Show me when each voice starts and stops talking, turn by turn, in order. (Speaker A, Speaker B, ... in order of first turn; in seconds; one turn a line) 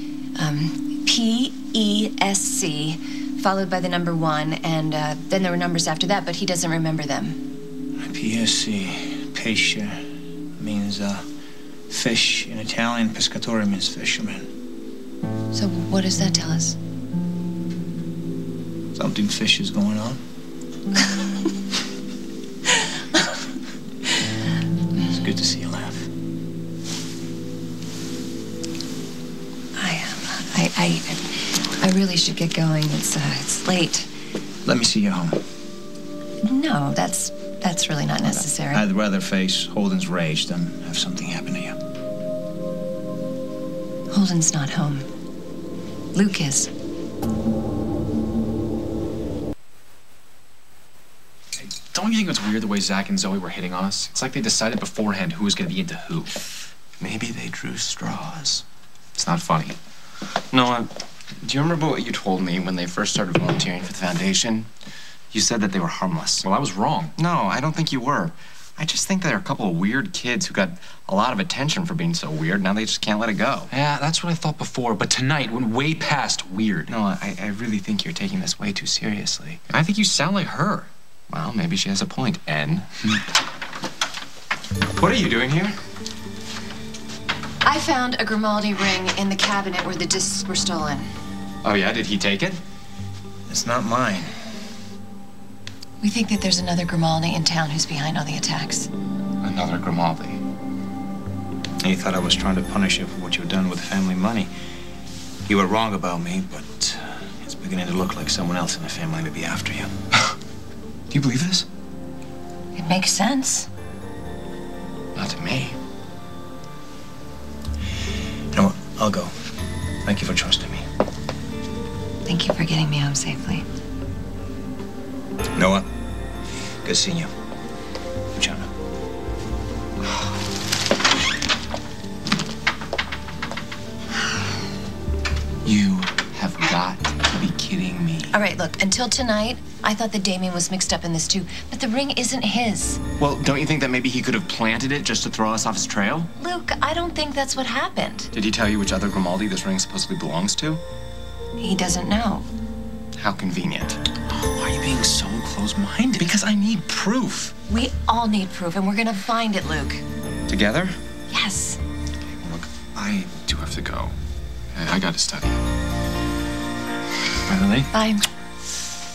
Speaker A: 0.4-7.4
Speaker B: 8.0-10.0
Speaker B: 10.6-11.2
Speaker B: 11.9-14.5
Speaker A: 15.5-16.8
Speaker B: 18.9-20.2
Speaker B: 25.1-26.1
Speaker A: 29.8-34.1
Speaker B: 34.6-35.4
Speaker A: 36.4-38.8
Speaker B: 38.2-41.8
Speaker A: 44.1-45.1
Speaker A: 46.1-46.7
Speaker C: 51.6-56.3
Speaker D: 57.0-58.6
Speaker C: 59.1-59.8
Speaker D: 60.5-60.9
Speaker D: 61.4-64.7
Speaker D: 65.3-66.5
Speaker C: 66.4-67.1
Speaker D: 67.2-73.7
Speaker C: 73.7-76.9
Speaker D: 76.9-79.6
Speaker C: 79.7-80.9
Speaker D: 81.3-82.9
Speaker D: 85.0-85.8
Speaker A: 87.6-91.1
Speaker D: 91.6-92.6
Speaker B: 93.5-94.3
Speaker A: 96.0-98.9
Speaker D: 99.4-100.4
Speaker B: 101.8-104.5
Speaker B: 105.5-109.9
Speaker D: 111.1-111.7
Speaker A: 112.8-113.7
Speaker D: 115.2-115.8
Speaker B: 118.5-119.3
Speaker B: 120.0-120.8
Speaker A: 122.2-123.6
Speaker B: 125.5-125.8
Speaker B: 126.8-127.3
Speaker B: 128.3-128.7
Speaker D: 135.7-138.3
Speaker A: 138.3-143.0
Speaker D: 143.2-146.3
Speaker A: 146.4-148.3
Speaker D: 148.3-150.8
Speaker A: 151.6-152.5
Speaker D: 153.2-154.0
Speaker C: 154.3-156.3
Speaker D: 156.2-157.5
Speaker A: 157.7-160.0
Speaker D: 160.5-161.0
Speaker A: 161.3-161.8
Speaker C: 162.3-164.2
Speaker C: 164.7-165.6
Speaker C: 167.5-167.9
Speaker A: 167.9-168.2